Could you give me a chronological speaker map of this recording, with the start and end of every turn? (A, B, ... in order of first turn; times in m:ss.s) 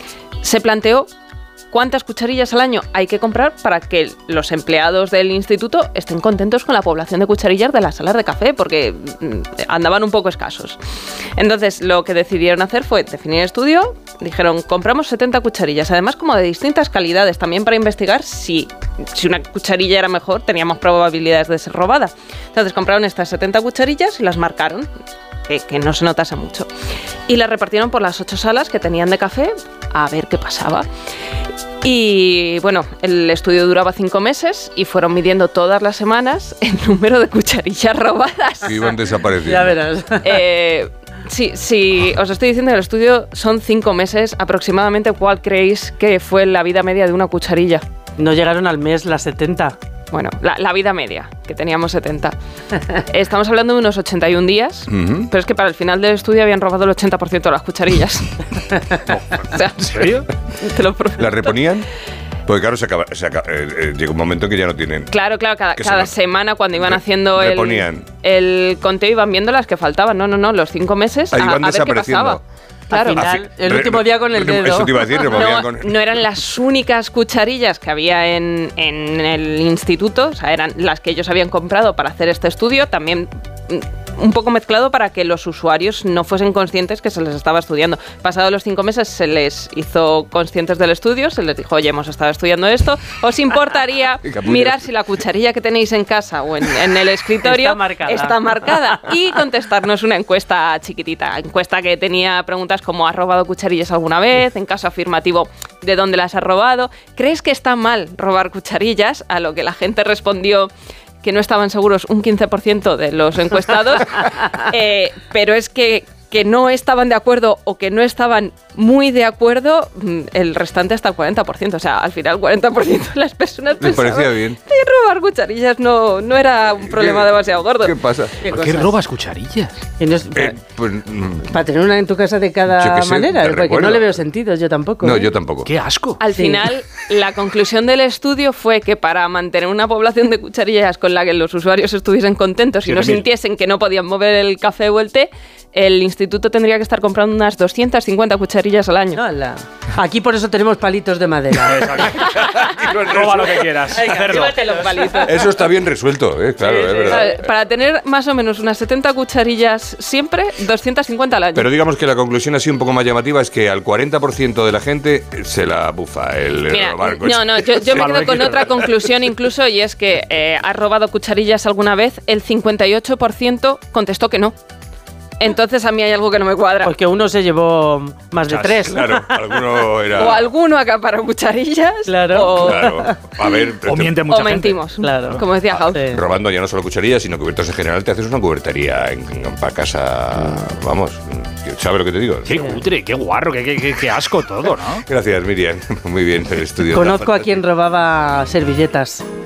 0:00.4-0:01.1 A
0:01.7-0:10.8 A
0:11.4-0:24.9 A
0:25.5-0:26.7 A
0:27.3-0:30.9 A
0:31.8-0:38.9 A
0:38.6-0:39.8 B
0:39.4-0:40.4 C
0:40.2-0:47.8 A
0:48.2-0:49.8 C
0:50.1-0:52.4 A
0:52.9-1:01.8 A
0:54.9-0:55.3 B
1:01.2-1:01.9 B
1:02.5-1:05.1 B
1:05.1-1:13.3 A
1:05.8-1:06.2 B
1:06.9-1:08.1 B
1:11.3-1:12.4 B
1:12.9-1:15.3 C
1:13.1-1:15.9 B
1:15.2-1:50.7 A
1:34.3-1:34.8 B
1:37.4-1:38.4 C
1:51.2-2:08.0 A
2:03.8-2:04.6 B
2:06.8-2:08.5 B
2:08.4-2:09.9 D
2:08.5-2:08.9 C
2:10.0-2:10.5 C
2:10.3-2:11.5 B
2:11.4-2:15.3 C
2:12.7-2:14.2 B
2:15.0-2:15.7 B
2:15.6-2:16.2 D
2:16.2-2:29.2 A
2:16.3-2:16.7 C
2:22.9-2:23.3 D
2:29.2-2:32.1 C
2:31.6-2:35.0 D
2:32.2-2:33.7 B
2:33.9-2:35.4 C
2:34.1-2:35.4 A
2:35.2-2:37.4 B
2:36.6-2:37.4 C
2:37.0-2:41.7 A
2:41.6-2:48.6 B
2:46.7-2:54.6 A
2:47.9-2:48.7 D
2:55.4-2:57.0 A
2:56.8-2:59.8 C
2:58.5-3:00.5 B
3:00.1-3:03.0 A
3:02.1-3:03.2 C
3:02.6-3:04.2 B
3:03.8-3:05.4 D
3:04.3-3:06.2 A
3:05.0-3:06.2 C
3:05.7-3:12.7 B
3:12.4-3:15.0 D
3:15.0-3:17.6 B
3:16.9-3:19.2 C